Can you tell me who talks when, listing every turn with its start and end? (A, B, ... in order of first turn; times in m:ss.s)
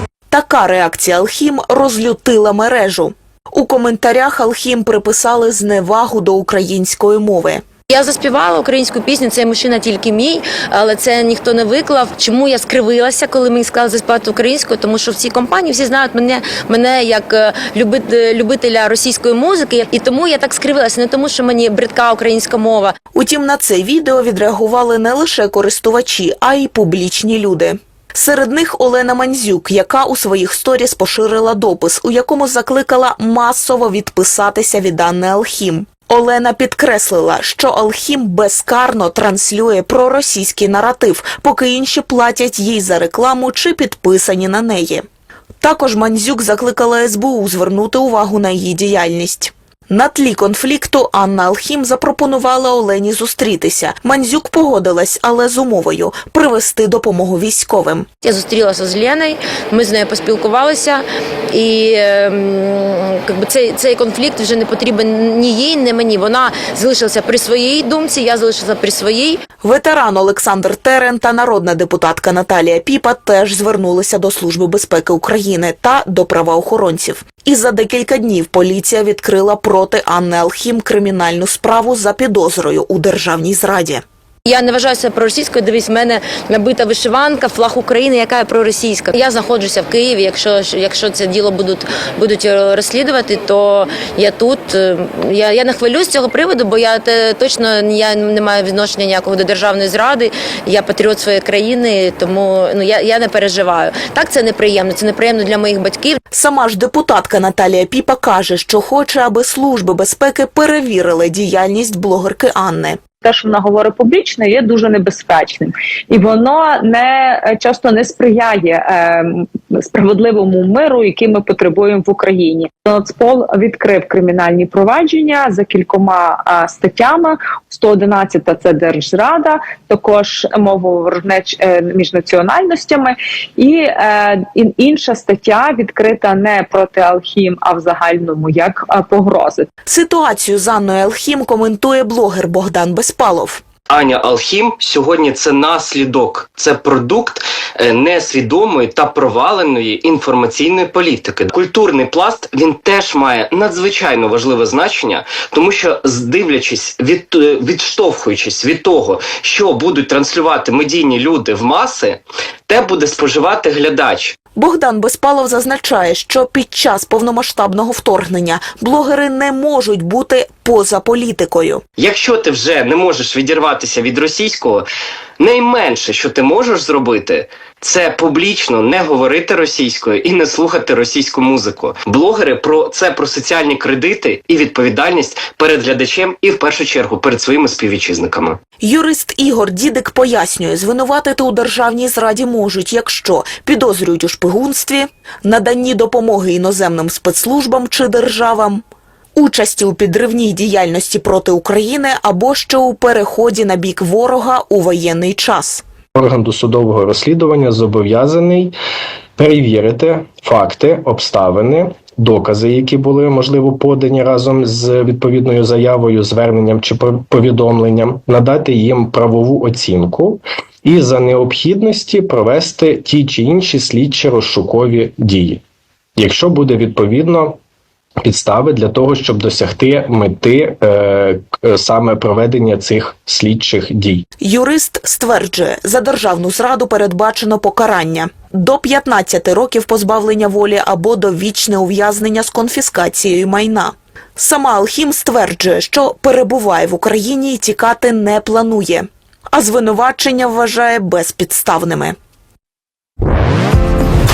0:00.3-0:07.6 A
0:07.9-0:23.0 B
0:23.1-0:45.0 A
0:45.6-0:58.1 A
0:58.2-1:09.4 B
1:09.6-1:24.0 A
1:24.5-1:46.2 B
1:46.3-1:53.0 A
1:53.3-1:59.2 C
1:59.9-2:19.7 C
2:19.9-2:23.6 A
2:23.9-2:44.3 D
2:44.6-2:51.8 A
2:52.0-2:54.8 D
2:55.4-3:08.6 D
3:08.8-3:18.8 A
3:19.4-3:25.8 A
3:26.2-3:28.8 E
3:29.4-3:45.6 E
3:46.2-3:47.6 E
3:48.2-3:54.2 E
3:54.4-4:12.2 A